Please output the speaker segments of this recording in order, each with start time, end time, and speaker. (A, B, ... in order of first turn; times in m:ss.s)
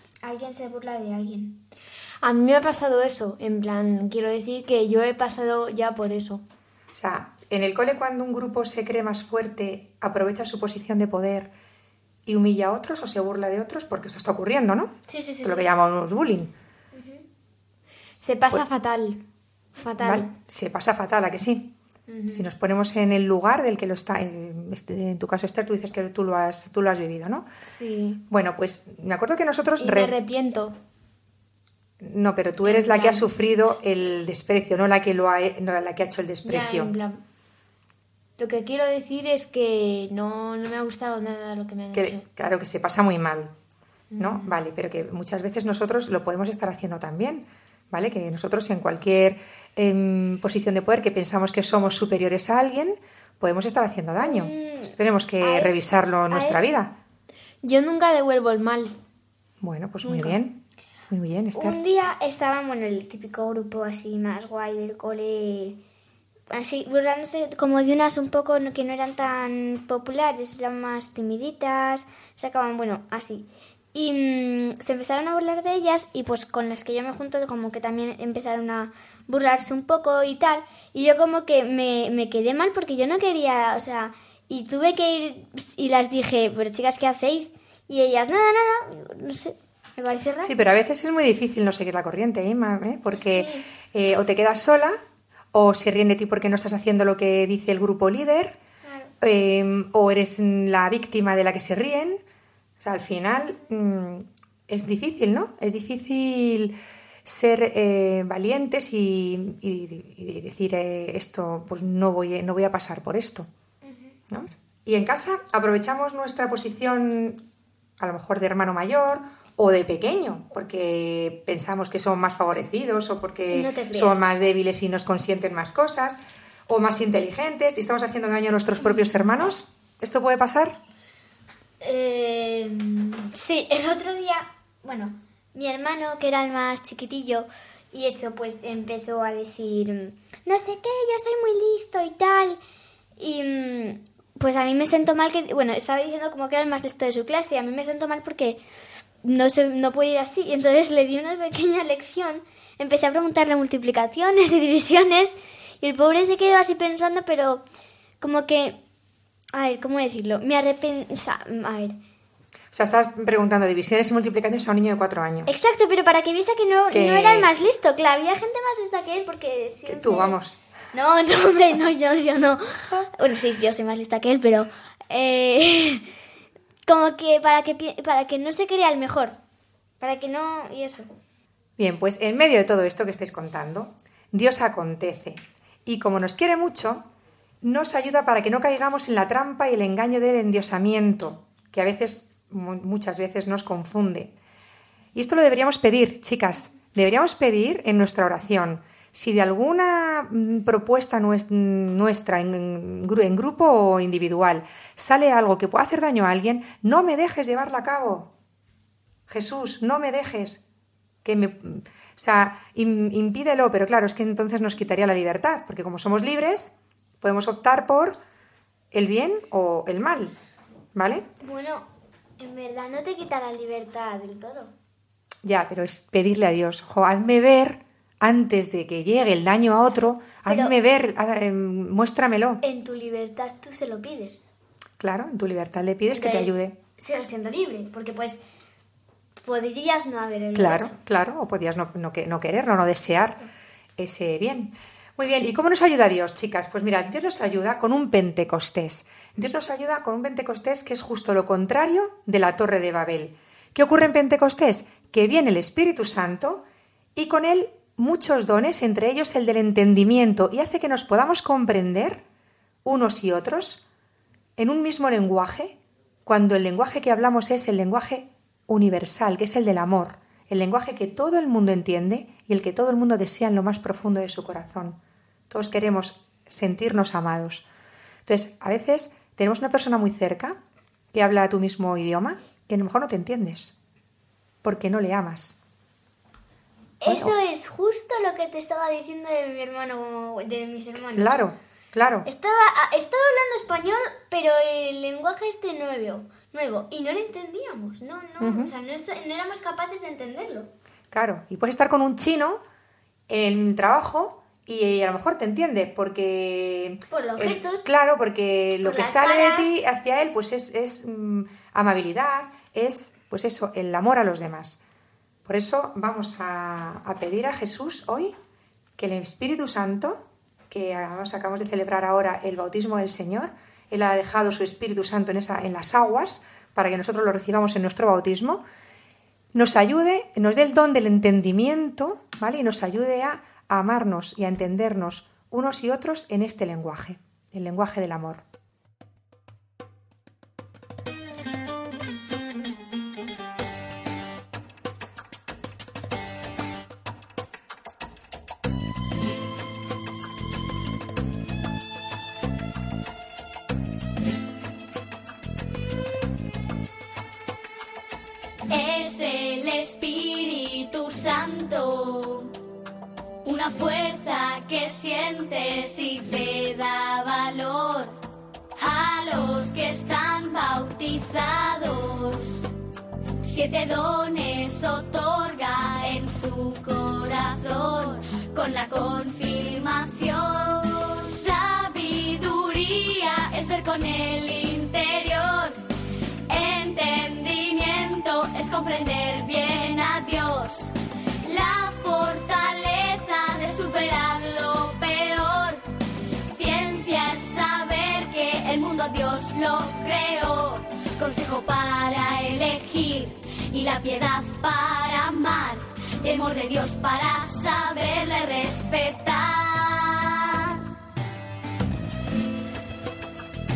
0:00.2-0:01.6 A
0:02.2-0:06.4 B
0:06.9-0:11.5 C
0:12.2-0:16.5 C
0:15.1-0:15.6 A
0:18.2-0:19.2 B
0:19.8-0:20.3 B
0:20.0-0:21.7 C
0:22.1-0:22.5 B
0:22.3-0:27.4 C
0:27.6-0:28.2 B
0:28.3-0:30.1 C
0:29.8-0:30.8 B
0:32.0-0:36.9 C
0:32.6-0:33.3 B
0:36.4-0:37.2 B
0:38.4-0:42.2 B
0:41.9-0:43.5 C
0:44.1-0:44.6 B
0:44.2-0:56.9 C
0:54.2-0:56.7 A
0:57.6-0:58.9 B
0:59.6-1:01.8 C
1:01.5-1:05.8 A
1:06.5-1:30.5 A
1:30.4-1:35.0 C
1:33.1-1:33.7 A
1:35.5-1:38.6 C
1:38.8-1:39.1 A
1:39.2-1:42.2 C
1:42.8-1:53.5 C
1:54.3-1:57.4 C
1:58.0-2:10.8 C
2:03.5-2:04.3 A
2:11.8-2:22.6 A
2:23.2-2:28.6 A
2:29.2-2:37.6 A
2:38.2-2:38.8 A
2:39.5-2:42.0 A
2:42.7-2:45.5 C
2:45.4-2:50.4 A
2:46.9-2:47.5 C
2:49.9-2:50.6 C
2:50.9-2:56.0 A
2:56.9-2:59.3 A
3:00.0-3:01.1 A
3:01.8-3:07.0 C
3:07.6-3:14.3 C
3:15.1-3:28.3 C
3:29.3-3:30.6 C
3:31.2-3:38.2 C
3:38.9-3:40.3 C
3:40.9-3:41.3 C
3:41.4-3:41.9 A
3:42.4-3:44.7 A
3:45.4-3:52.6 C
3:50.5-3:50.7 A
3:52.6-3:54.5 A
3:55.0-3:56.7 C
3:56.1-3:58.4 A
3:59.4-4:01.0 A
4:00.6-4:03.4 C
4:04.0-4:16.6 C
4:17.2-4:22.2 C
4:22.8-4:23.8 C
4:24.6-4:35.0 C
4:35.5-4:37.6 C
4:38.3-4:40.6 C
4:41.1-4:43.7 C
4:44.6-4:45.6 C
4:47.0-4:51.4 A
4:47.0-4:47.3 C
4:51.0-4:52.3 C
4:52.3-5:00.7 A
4:58.4-4:58.7 C
5:01.1-5:02.6 C
5:03.3-5:14.8 C
5:07.1-5:07.9 A
5:08.8-5:09.9 A
5:15.4-5:18.3 C
5:19.0-5:28.6 C
5:29.5-5:38.4 C
5:58.7-6:02.5 D
6:03.4-6:08.2 D
6:08.8-6:12.6 D
6:13.4-6:25.8 D
6:26.5-6:30.9 D
6:31.4-6:35.8 D
6:36.5-6:50.8 D